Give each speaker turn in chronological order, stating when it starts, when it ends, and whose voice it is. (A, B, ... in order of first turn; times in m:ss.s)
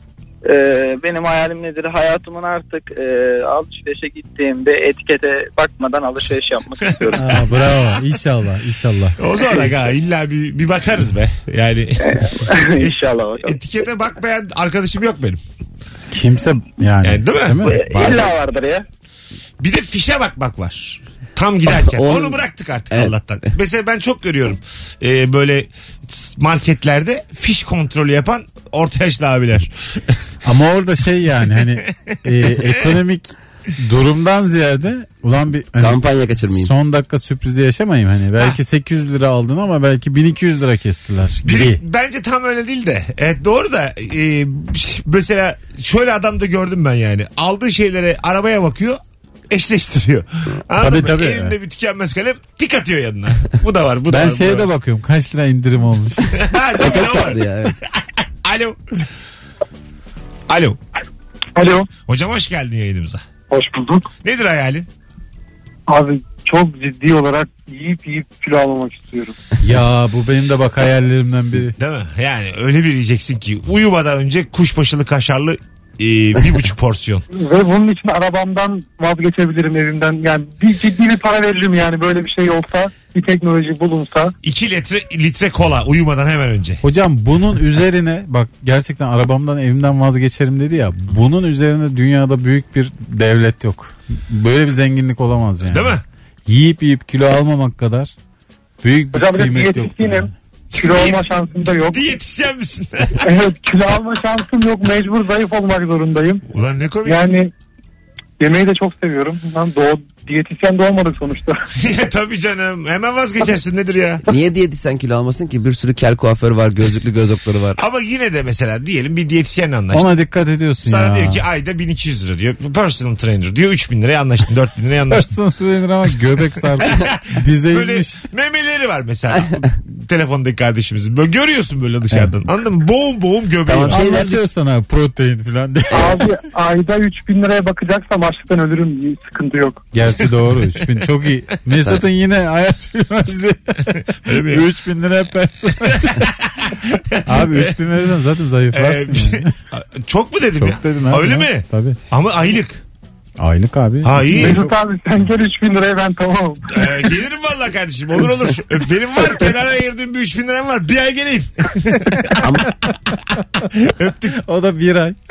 0:00.4-0:07.4 A
0:07.1-0:09.2 B
0:09.2-0:15.4 C
0:12.1-0:13.6 A
0:16.1-0:18.3 B
0:17.0-0:17.7 C
0:17.6-0:18.8 A
0:19.6-0:30.2 C
0:21.7-0:23.5 D
0:30.4-0:41.8 B
0:31.9-0:32.7 C
0:35.8-0:36.7 D
0:41.4-0:54.7 C
0:50.8-0:51.5 B
0:54.1-0:56.4 B
0:56.3-0:57.4 C
0:56.8-0:57.8 D
0:58.4-0:59.0 C
1:00.5-1:00.8 C
1:01.6-1:01.9 E
1:02.1-1:03.2 C
1:03.5-1:04.1 E
1:04.2-1:04.9 C
1:05.9-1:09.4 E
1:09.6-1:11.8 B
1:11.8-1:17.2 C
1:17.3-1:24.3 E
1:24.4-1:26.8 C
1:26.8-1:36.0 B
1:35.7-1:36.0 C
1:36.5-1:38.1 B
1:38.8-1:40.3 B
1:39.1-1:42.1 E
1:40.8-1:41.2 C
1:41.9-1:43.3 C
1:43.2-1:46.4 E
1:46.5-1:47.3 C
1:47.0-1:47.5 E
1:48.4-1:51.6 E
1:51.8-1:54.2 C
1:54.2-1:57.8 D
1:57.8-2:00.1 C
1:59.9-2:01.4 B
2:00.8-2:05.3 C
2:05.1-2:08.2 B
2:06.8-2:14.0 C
2:13.6-2:14.4 D
2:13.9-2:16.2 B
2:15.9-2:16.2 D
2:15.9-2:19.9 E
2:19.9-2:26.2 B
2:24.2-2:24.6 C
2:26.0-2:27.7 C
2:27.2-2:29.5 B
2:28.7-2:32.8 C
2:30.6-2:32.0 B
2:33.4-2:34.7 B
2:34.0-2:34.6 C
2:34.3-2:37.0 E
2:36.7-2:42.5 C
2:42.4-2:42.7 D
2:43.8-2:44.4 C
2:44.4-2:45.2 B